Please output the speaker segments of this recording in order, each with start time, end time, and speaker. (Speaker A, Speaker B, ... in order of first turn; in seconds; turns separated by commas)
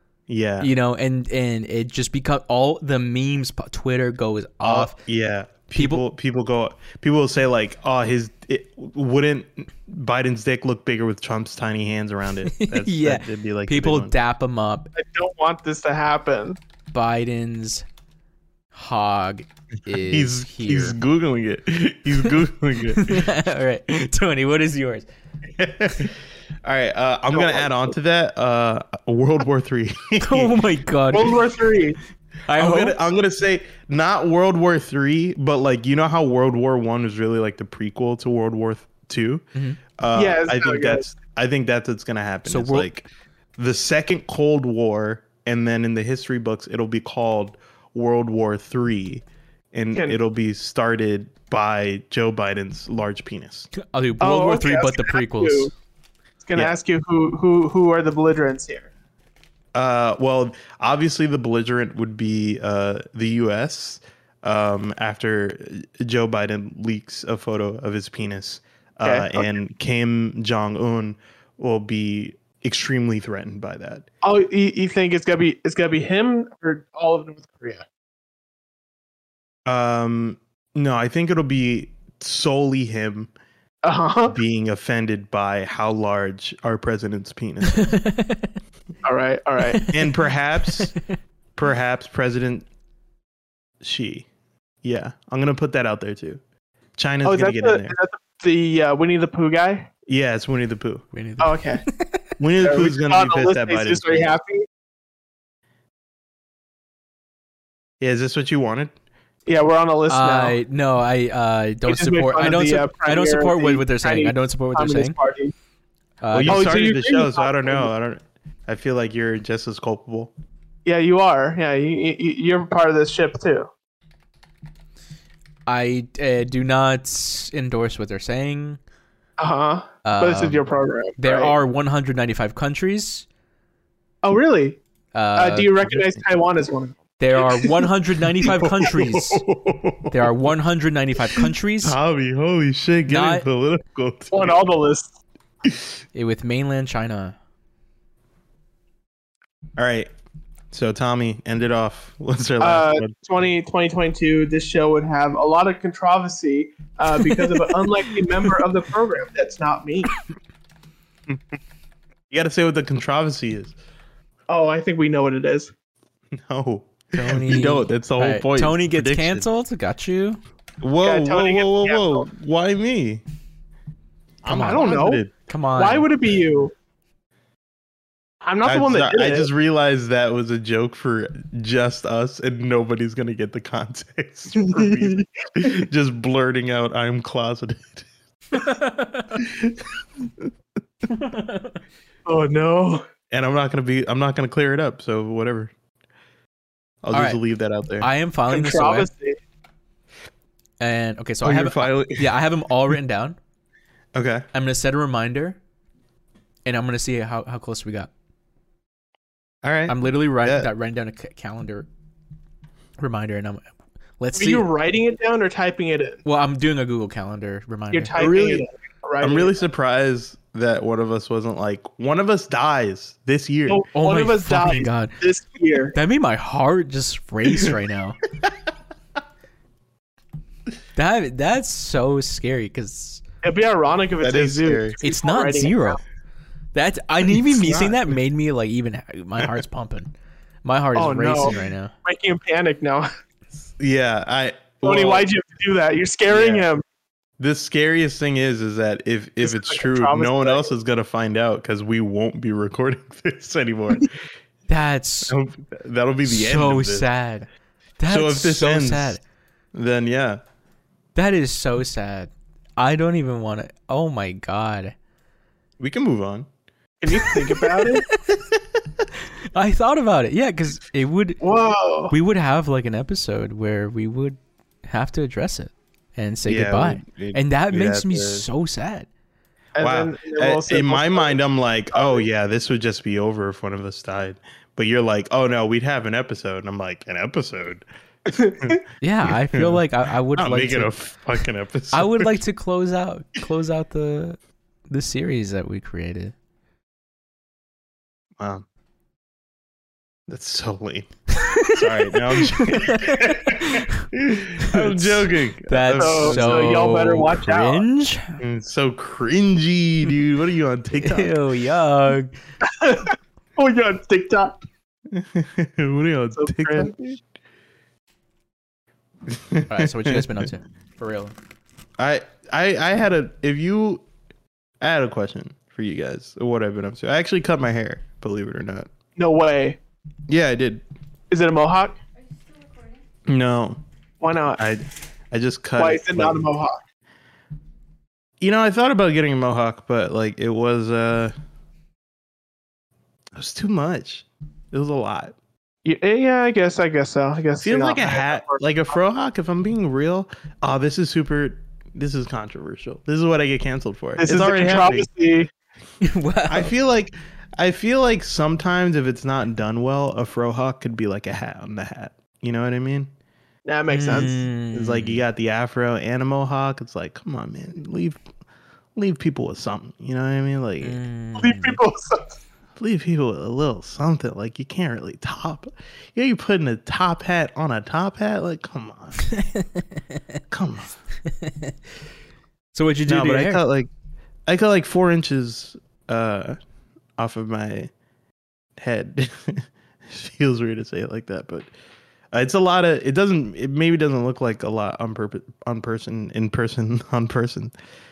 Speaker A: 0.3-0.7, Speaker B: 0.6-4.9, Speaker A: 4.6-14.1, Speaker B: 5.7-6.0, Speaker B: 12.5-14.9, Speaker C: 14.9-16.6, Speaker B: 16.9-17.9, Speaker B: 18.7-21.0, Speaker A: 19.9-23.3, Speaker B: 22.9-25.1, Speaker A: 25.6-30.6, Speaker C: 27.3-27.8, Speaker B: 30.2-31.4, Speaker C: 31.1-32.0, Speaker B: 32.5-33.0, Speaker A: 32.5-53.7, Speaker B: 39.5-39.8, Speaker C: 40.1-41.0, Speaker B: 42.5-42.9, Speaker B: 53.8-55.7, Speaker C: 54.2-55.7, Speaker C: 56.4-58.9, Speaker A: 59.7-74.1, Speaker C: 69.0-69.5, Speaker C: 74.2-77.8, Speaker A: 79.7-83.3, Speaker C: 83.8-84.4, Speaker A: 84.3-87.9, Speaker B: 87.6-88.5, Speaker C: 89.0-89.9, Speaker B: 89.7-90.0, Speaker A: 89.9-90.9, Speaker B: 90.7-91.2, Speaker A: 91.5-92.7, Speaker A: 93.8-94.3, Speaker A: 94.8-96.4, Speaker A: 97.0-97.9, Speaker C: 97.2-99.9, Speaker A: 100.1-101.0, Speaker B: 101.1-102.2, Speaker C: 101.4-101.8, Speaker A: 102.4-104.3, Speaker C: 102.6-104.7, Speaker A: 108.0-108.9, Speaker C: 109.5-110.6, Speaker B: 110.1-115.2, Speaker C: 111.8-115.5, Speaker B: 116.2-116.8, Speaker A: 116.3-120.3, Speaker C: 116.5-117.9, Speaker C: 120.8-123.7, Speaker B: 125.7-128.8, Speaker C: 129.4-131.5, Speaker B: 130.0-130.6, Speaker B: 131.2-133.2, Speaker C: 134.2-134.8, Speaker B: 135.1-136.0, Speaker C: 135.3-137.0, Speaker B: 137.2-139.4, Speaker A: 138.4-140.3, Speaker B: 140.1-142.0, Speaker A: 141.3-144.6, Speaker B: 143.1-143.4, Speaker C: 144.3-145.1, Speaker B: 146.1-147.3, Speaker A: 149.8-150.1, Speaker A: 150.7-153.1, Speaker C: 152.6-160.1, Speaker A: 162.3-163.7, Speaker C: 164.5-165.7, Speaker A: 166.3-169.4, Speaker B: 167.1-170.4, Speaker A: 170.8-173.2, Speaker C: 171.0-172.3, Speaker A: 174.4-175.3, Speaker B: 174.5-174.9, Speaker C: 174.5-175.2, Speaker B: 175.5-176.1, Speaker C: 175.8-176.7, Speaker C: 178.4-179.5, Speaker A: 178.6-188.1, Speaker C: 184.5-185.2, Speaker B: 188.5-189.4, Speaker A: 189.4-189.9, Speaker B: 191.1-191.8, Speaker C: 192.2-193.1, Speaker A: 193.3-195.7, Speaker A: 197.0-198.1, Speaker B: 197.1-197.4, Speaker B: 198.0-199.1, Speaker C: 198.5-199.4, Speaker B: 200.8-203.4, Speaker A: 201.4-202.3, Speaker A: 204.1-204.5, Speaker B: 204.5-205.6, Speaker B: 206.7-208.1, Speaker A: 209.6-210.7, Speaker B: 209.9-211.9, Speaker B: 213.0-214.7, Speaker C: 214.3-216.2, Speaker B: 216.2-218.2, Speaker C: 217.9-219.6, Speaker A: 218.2-218.6, Speaker A: 219.2-223.8, Speaker C: 223.7-225.9, Speaker B: 223.9-225.1, Speaker B: 225.9-228.2, Speaker B: 230.9-233.2, Speaker C: 233.4-236.0, Speaker A: 234.2-234.9, Speaker B: 235.0-236.0, Speaker B: 236.7-240.1, Speaker A: 237.3-238.1, Speaker B: 240.6-241.9, Speaker C: 240.9-243.1, Speaker A: 243.8-245.3, Speaker C: 244.8-246.8, Speaker A: 246.3-246.7, Speaker A: 247.4-254.1, Speaker C: 249.4-250.7, Speaker B: 254.7-255.3, Speaker A: 255.3-257.1, Speaker B: 256.2-259.2, Speaker A: 258.1-259.2, Speaker A: 259.7-260.4, Speaker B: 261.1-264.9, Speaker A: 265.8-266.5, Speaker C: 267.0-268.1, Speaker B: 267.1-268.4, Speaker B: 269.5-271.4, Speaker C: 271.4-272.1, Speaker B: 272.1-279.1, Speaker A: 276.4-278.4, Speaker C: 279.8-281.4, Speaker A: 279.8-287.8, Speaker C: 281.9-282.2, Speaker C: 288.3-288.8, Speaker A: 288.6-289.8, Speaker B: 289.0-290.9, Speaker A: 290.4-292.3, Speaker B: 291.9-294.4, Speaker B: 294.9-296.3, Speaker A: 298.4-298.6, Speaker A: 300.3-301.1, Speaker B: 301.3-304.1, Speaker A: 301.6-306.9, Speaker B: 304.6-308.4, Speaker C: 305.9-307.8, Speaker A: 308.4-311.4, Speaker B: 311.0-312.3, Speaker C: 312.6-314.6, Speaker A: 315.1-317.2, Speaker C: 316.4-316.9, Speaker A: 319.3-320.4, Speaker B: 319.7-321.3, Speaker A: 322.0-324.0, Speaker A: 324.8-328.9, Speaker C: 329.1-329.8, Speaker A: 330.3-330.8, Speaker C: 331.3-332.0, Speaker A: 333.2-333.8, Speaker C: 334.2-334.6, Speaker A: 334.6-336.5, Speaker C: 335.8-336.8, Speaker A: 338.4-341.3, Speaker A: 343.4-345.4, Speaker C: 345.8-348.6, Speaker A: 347.6-355.1, Speaker C: 354.2-355.5, Speaker B: 356.0-356.7, Speaker A: 356.5-363.1, Speaker C: 363.6-364.4, Speaker B: 363.9-365.2, Speaker A: 364.7-368.2, Speaker A: 368.9-371.0, Speaker B: 370.8-371.8, Speaker C: 371.4-372.4, Speaker A: 372.8-379.3, Speaker B: 379.2-380.2, Speaker A: 380.5-380.9, Speaker B: 381.2-381.8, Speaker B: 382.7-383.6, Speaker A: 383.1-383.9, Speaker A: 384.5-386.6, Speaker A: 387.2-387.9, Speaker A: 388.8-391.7, Speaker A: 392.3-397.7